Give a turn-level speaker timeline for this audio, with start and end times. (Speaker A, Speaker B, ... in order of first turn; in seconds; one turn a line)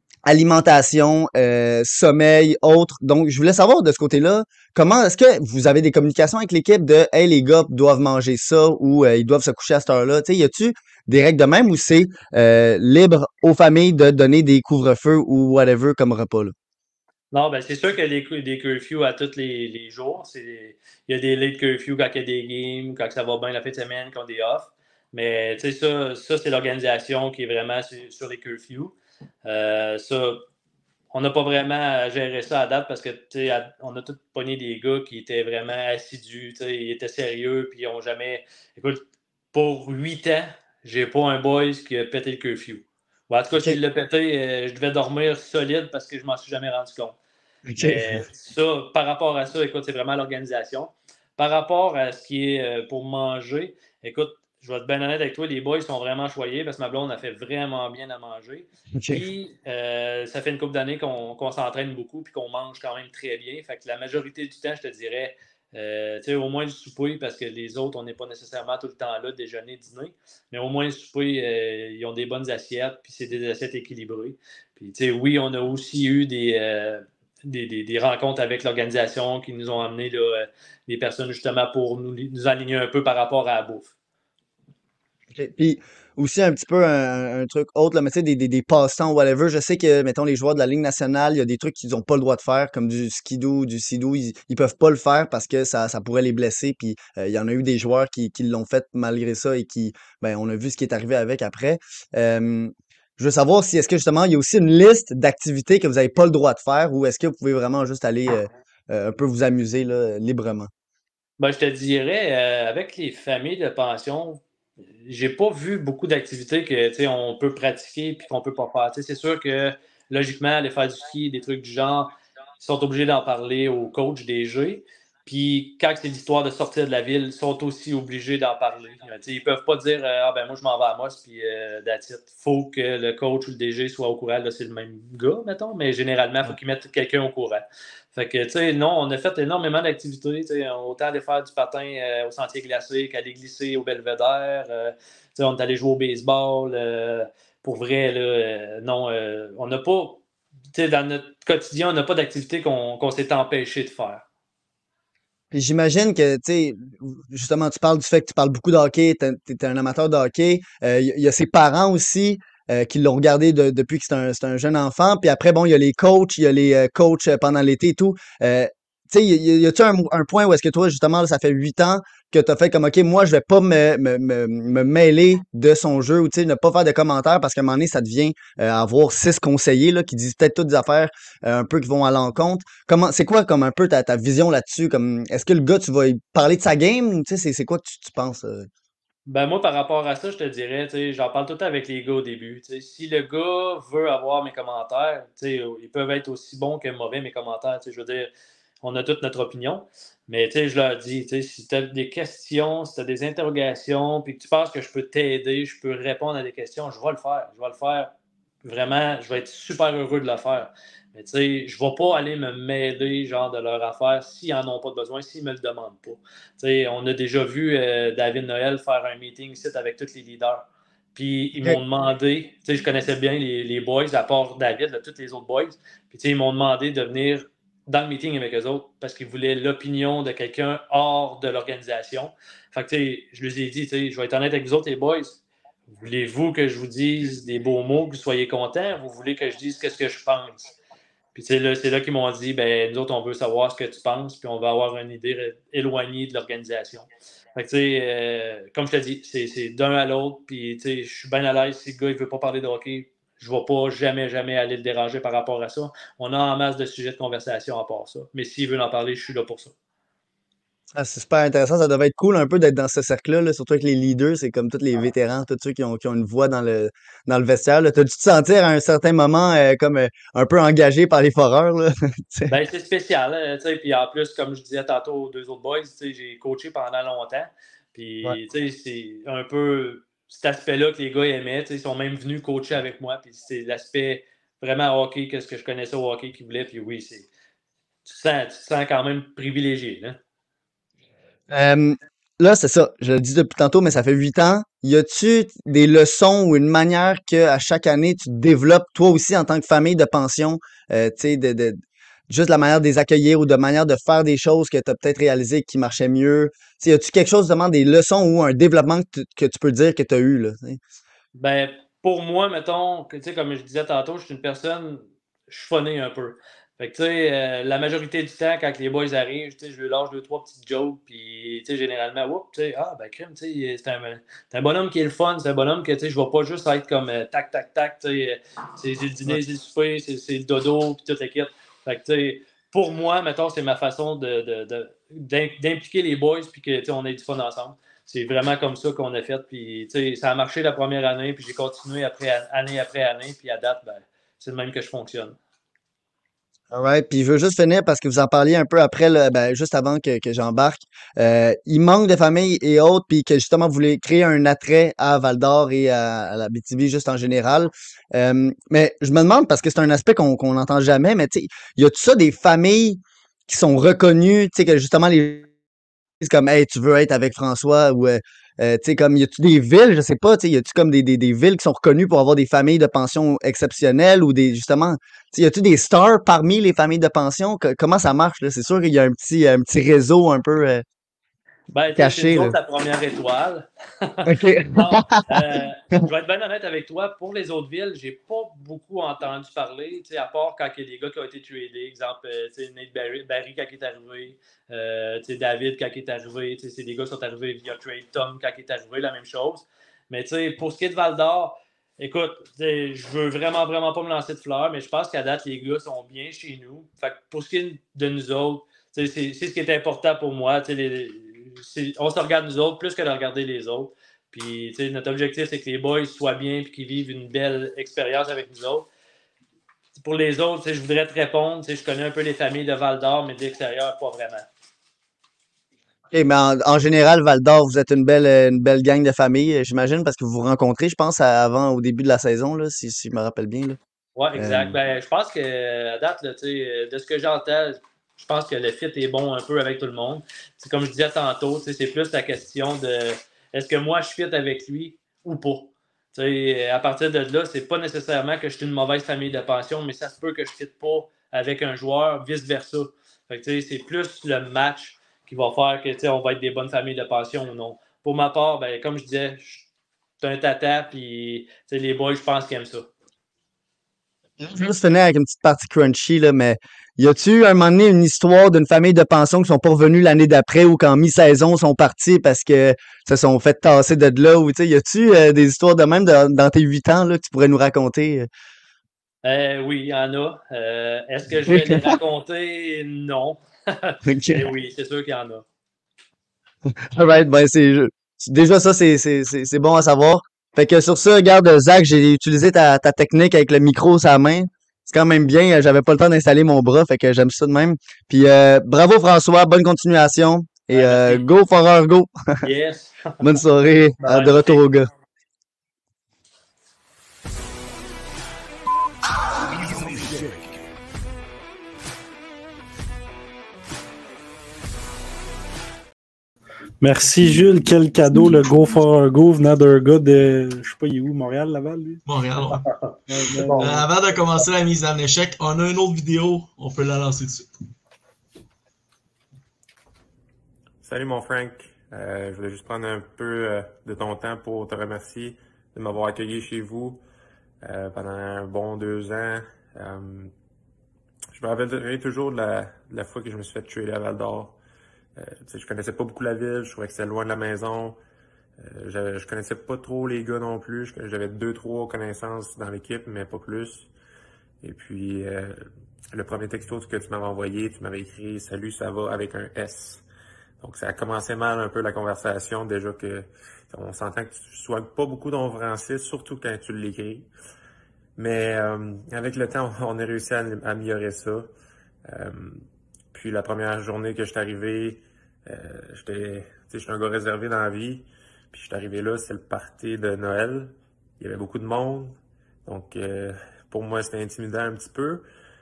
Speaker A: 0.3-16.5
Speaker B: 17.3-30.4
Speaker B: 31.1-47.2
Speaker A: 43.5-43.8
Speaker A: 47.7-48.3
Speaker B: 47.8-83.9
Speaker A: 59.0-59.3
Speaker A: 85.3-110.7
Speaker B: 111.4-114.4
Speaker B: 115.0-150.2
Speaker B: 150.7-154.2
Speaker A: 155.5-188.7
Speaker B: 189.3-198.3
Speaker B: 198.8-208.1
Speaker B: 208.6-240.7
Speaker B: 241.3-259.7
Speaker A: 260.9-272.6
Speaker B: 272.5-287.3
Speaker B: 288.1-290.2
Speaker A: 291.5-310.8
Speaker B: 311.4-345.4
Speaker A: 346.7-365.5
Speaker A: 366.2-380.9
Speaker B: 381.7-418.9
Speaker A: 382.0-382.6
Speaker A: 384.3-386.0
Speaker B: 420.0-424.5
Speaker A: 426.1-433.8
Speaker B: 434.2-459.7
Speaker A: 434.4-434.8
Speaker B: 460.2-462.9
Speaker A: 464.4-478.3
Speaker B: 479.2-485.5
Speaker A: 481.5-481.9
Speaker A: 484.1-484.5
Speaker A: 486.8-502.4
Speaker B: 500.7-501.2
Speaker B: 502.4-503.2
Speaker A: 503.2-504.9
Speaker B: 504.0-504.6
Speaker C: 516.8-522.0
Speaker D: 522.1-522.6
Speaker B: 522.7-523.8
Speaker C: 523.1-523.9
Speaker D: 523.6-527.5
Speaker E: 530.8-537.0
Speaker E: 537.6-540.3
Speaker E: 541.3-544.6
Speaker E: 545.2-548.0
Speaker E: 548.6-553.9
Speaker E: 554.6-560.0
Speaker E: 560.6-567.3
Speaker E: 568.2-571.5
Speaker E: 572.0-585.2